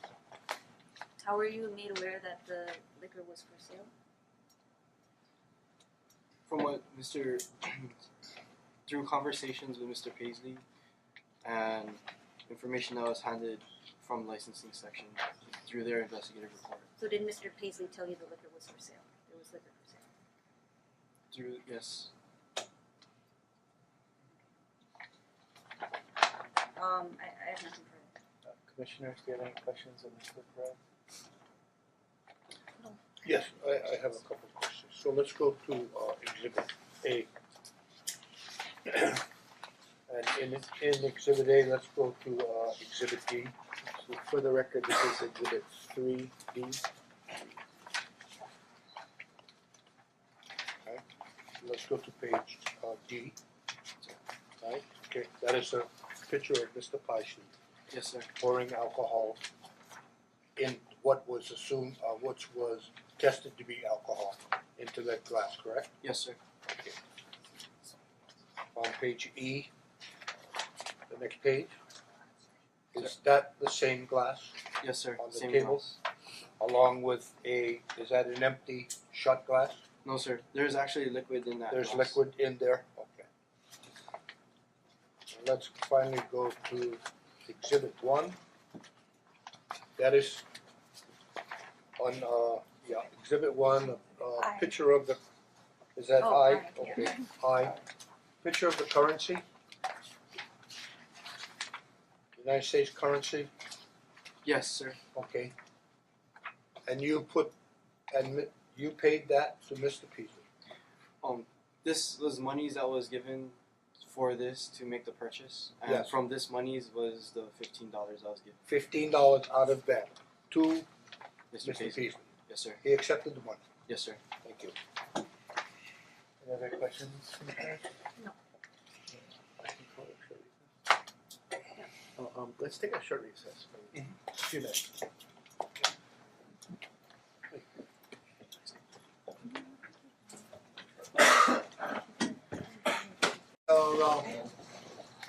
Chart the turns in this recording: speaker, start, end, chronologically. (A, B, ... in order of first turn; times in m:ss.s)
0:01.2-0:03.9 A
0:06.4-0:08.0 B
0:08.9-0:10.6 B
0:11.4-0:16.9 B
0:17.0-0:20.0 A
0:21.3-0:22.1 B
0:26.8-0:28.1 A
0:28.4-0:30.8 C
0:33.2-0:37.3 D
0:38.9-0:39.2 D
0:40.1-0:43.5 D
0:43.8-0:46.8 C
0:51.6-0:53.4 D
0:54.6-0:57.5 D
0:57.9-0:58.3 B
0:58.4-0:59.4 D
1:00.6-1:06.0 D
1:06.0-1:06.4 B
1:06.7-1:06.9 D
1:08.7-1:09.7 D
1:11.1-1:11.7 D
1:12.9-1:14.6 D
1:14.8-1:16.0 B
1:15.2-1:15.9 D
1:16.6-1:19.8 D
1:20.0-1:22.2 B
1:21.7-1:23.3 D
1:25.3-1:28.4 D
1:30.0-1:30.4 D
1:32.0-1:35.2 D
1:34.4-1:34.7 A
1:36.0-1:37.8 D
1:36.2-1:37.2 A
1:38.4-1:39.4 D
1:42.4-1:43.5 D
1:44.4-1:45.0 B
1:45.1-1:45.5 D
1:46.8-1:47.5 D
1:48.1-1:50.4 D
1:51.2-1:58.6 B
1:55.8-1:56.1 D
1:58.6-2:00.9 D
2:01.5-2:02.8 B
2:01.6-2:02.2 D
2:02.8-2:03.6 D
2:03.9-2:04.2 B
2:04.4-2:04.7 D
2:06.4-2:07.8 C
2:09.6-2:10.6 C
2:12.1-2:14.9 C
2:23.7-2:24.4 D